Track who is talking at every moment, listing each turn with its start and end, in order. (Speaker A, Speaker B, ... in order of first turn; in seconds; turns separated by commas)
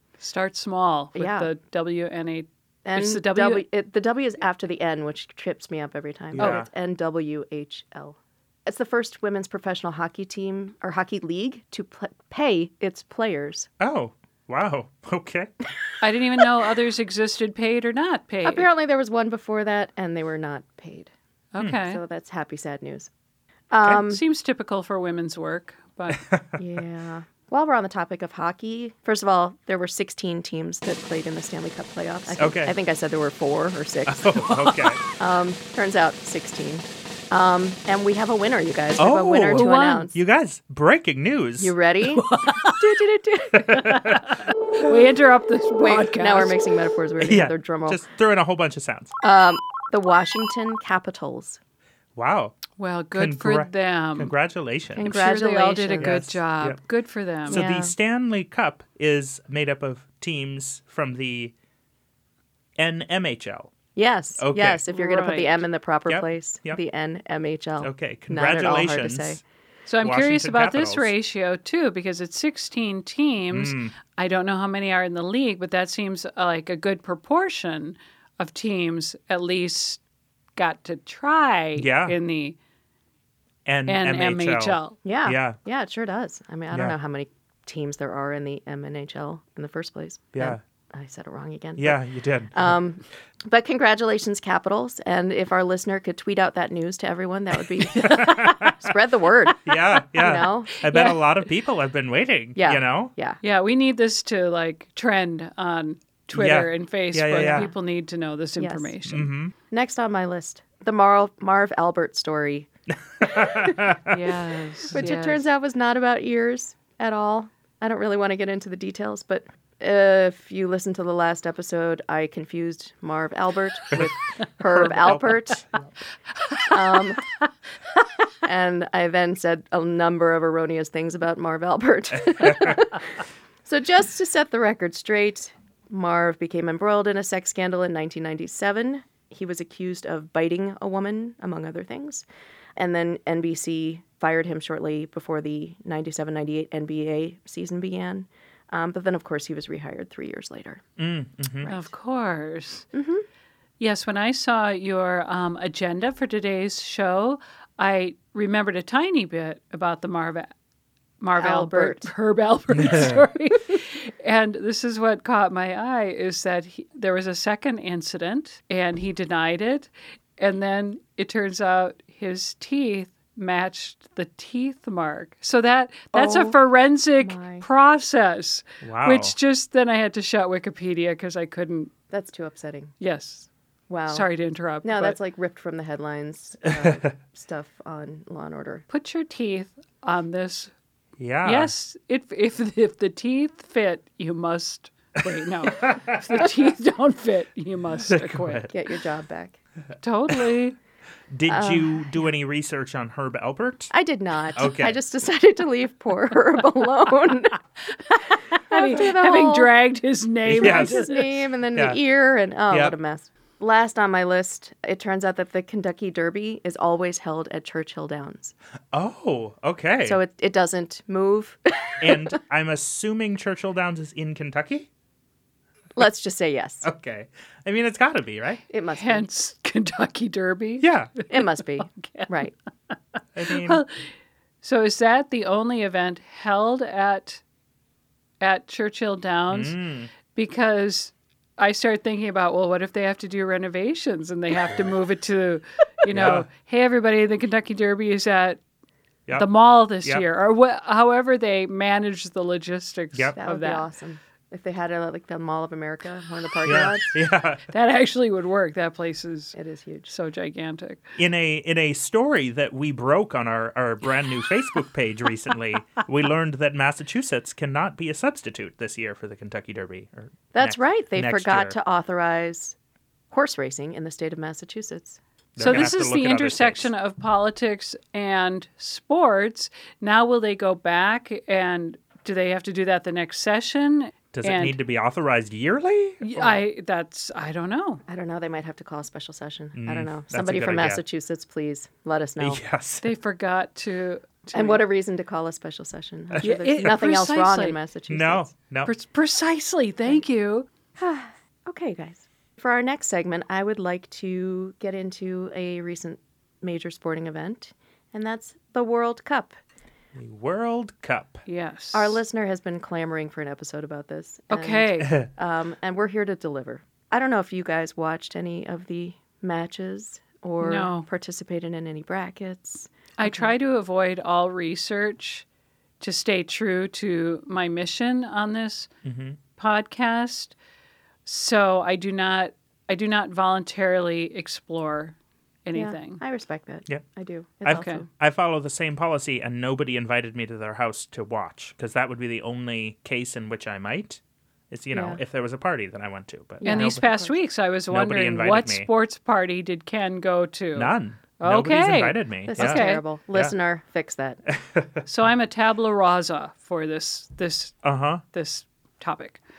Speaker A: 0.2-3.6, Speaker B: 1.2-1.5, Speaker B: 2.9-13.7, Speaker C: 6.3-6.7, Speaker A: 6.4-6.7, Speaker C: 13.8-15.5, Speaker A: 16.0-18.7, Speaker B: 18.4-21.1, Speaker A: 21.5-22.0, Speaker B: 21.8-23.1, Speaker B: 23.7-24.2, Speaker A: 24.0-26.2, Speaker C: 26.2-26.6, Speaker B: 26.6-34.4, Speaker C: 32.4-32.7, Speaker C: 34.1-35.0, Speaker A: 34.5-35.0, Speaker B: 35.1-40.2, Speaker C: 39.0-41.7, Speaker A: 39.5-40.1, Speaker B: 41.6-42.3, Speaker A: 42.1-43.0, Speaker B: 42.8-43.9, Speaker A: 43.5-46.6, Speaker C: 43.6-44.2, Speaker B: 45.8-48.0, Speaker C: 47.2-49.1, Speaker B: 49.2-51.6, Speaker C: 52.2-52.6, Speaker A: 52.8-54.3, Speaker C: 53.1-55.1, Speaker B: 55.0-56.3, Speaker A: 55.0-57.6, Speaker C: 56.0-56.8, Speaker B: 57.5-57.9, Speaker C: 57.5-61.5, Speaker C: 62.8-63.7, Speaker B: 64.0-69.4, Speaker C: 64.4-64.8, Speaker A: 64.9-65.6, Speaker C: 66.1-66.8, Speaker C: 67.8-69.4, Speaker A: 69.9-80.0, Speaker C: 70.0-71.1, Speaker C: 73.5-73.9, Speaker A: 80.6-82.6, Speaker C: 81.8-82.2, Speaker C: 83.7-85.6, Speaker A: 83.9-85.0, Speaker B: 85.0-101.2, Speaker C: 90.3-90.6, Speaker C: 91.8-92.7, Speaker A: 98.0-98.7, Speaker C: 98.0-98.8, Speaker C: 99.7-103.1, Speaker B: 102.6-103.4, Speaker A: 103.4-109.3, Speaker C: 106.3-107.7, Speaker B: 107.3-107.7, Speaker B: 108.6-108.9, Speaker C: 109.1-109.5, Speaker B: 109.7-112.7, Speaker C: 113.2-114.3, Speaker B: 113.2-113.9, Speaker A: 114.1-115.5, Speaker B: 114.9-125.6, Speaker C: 124.7-125.8, Speaker B: 126.7-127.3, Speaker B: 128.4-133.1, Speaker C: 132.4-132.8, Speaker B: 133.7-142.2, Speaker B: 142.8-150.8, Speaker C: 151.0-151.7, Speaker B: 151.6-151.9, Speaker A: 151.7-152.9, Speaker B: 152.9-153.2, Speaker A: 153.8-160.5, Speaker A: 161.2-181.9, Speaker B: 161.4-162.1, Speaker C: 162.8-163.2, Speaker B: 176.1-176.6, Speaker B: 177.2-177.7, Speaker C: 178.8-179.3, Speaker B: 182.1-182.9, Speaker A: 183.0-183.5, Speaker B: 183.9-184.3, Speaker A: 184.1-185.2, Speaker B: 184.8-188.8, Speaker A: 188.9-190.7, Speaker C: 191.2-191.7, Speaker A: 191.4-198.7, Speaker C: 195.6-196.4, Speaker C: 198.0-198.7, Speaker B: 198.7-199.6, Speaker A: 200.0-200.8, Speaker C: 201.3-203.9, Speaker B: 201.5-202.2, Speaker B: 203.9-207.6, Speaker C: 204.5-205.0, Speaker A: 207.9-211.4, Speaker B: 208.7-209.7, Speaker C: 210.4-211.0, Speaker B: 210.6-218.5, Speaker C: 211.7-212.0, Speaker C: 212.7-212.9, Speaker C: 218.9-220.2, Speaker B: 220.1-222.3, Speaker C: 222.0-224.9, Speaker B: 226.0-226.9, Speaker C: 226.8-228.7, Speaker B: 228.7-229.3, Speaker A: 228.9-232.3, Speaker C: 230.8-231.1, Speaker B: 231.3-232.5, Speaker C: 233.3-233.8, Speaker A: 233.5-237.4, Speaker A: 238.4-239.8, Speaker C: 239.5-240.1, Speaker A: 240.3-248.6, Speaker C: 246.1-246.5, Speaker A: 249.3-253.9, Speaker B: 253.4-257.1, Speaker C: 256.6-257.6, Speaker A: 257.7-259.6, Speaker B: 259.6-260.1, Speaker A: 260.1-261.0, Speaker C: 261.2-271.8, Speaker B: 270.5-272.8, Speaker B: 273.3-275.9, Speaker C: 275.6-276.9, Speaker A: 275.6-284.8, Speaker C: 284.3-286.2, Speaker A: 286.2-288.0, Speaker B: 288.1-292.6, Speaker C: 289.8-291.0, Speaker C: 292.4-293.1, Speaker A: 293.0-294.8, Speaker B: 294.5-298.5, Speaker C: 296.3-296.9, Speaker A: 296.4-297.8, Speaker C: 298.1-298.9, Speaker A: 298.9-300.7, Speaker B: 301.0-309.6, Speaker C: 310.1-311.4, Speaker A: 311.5-312.2, Speaker B: 311.9-323.5, Speaker A: 314.5-315.2, Speaker A: 320.6-321.1, Speaker A: 323.2-325.5, Speaker A: 326.0-328.9, Speaker C: 329.0-329.4, Speaker A: 329.6-330.6, Speaker A: 331.3-336.2, Speaker B: 335.7-338.1, Speaker C: 337.6-347.0, Speaker A: 337.7-338.0, Speaker B: 344.9-345.2, Speaker B: 346.6-347.4, Speaker A: 346.6-353.0, Speaker C: 347.9-348.9, Speaker C: 350.8-353.5, Speaker B: 352.5-354.4, Speaker C: 354.5-355.0, Speaker A: 355.1-357.8, Speaker C: 357.8-358.2, Speaker A: 358.3-359.4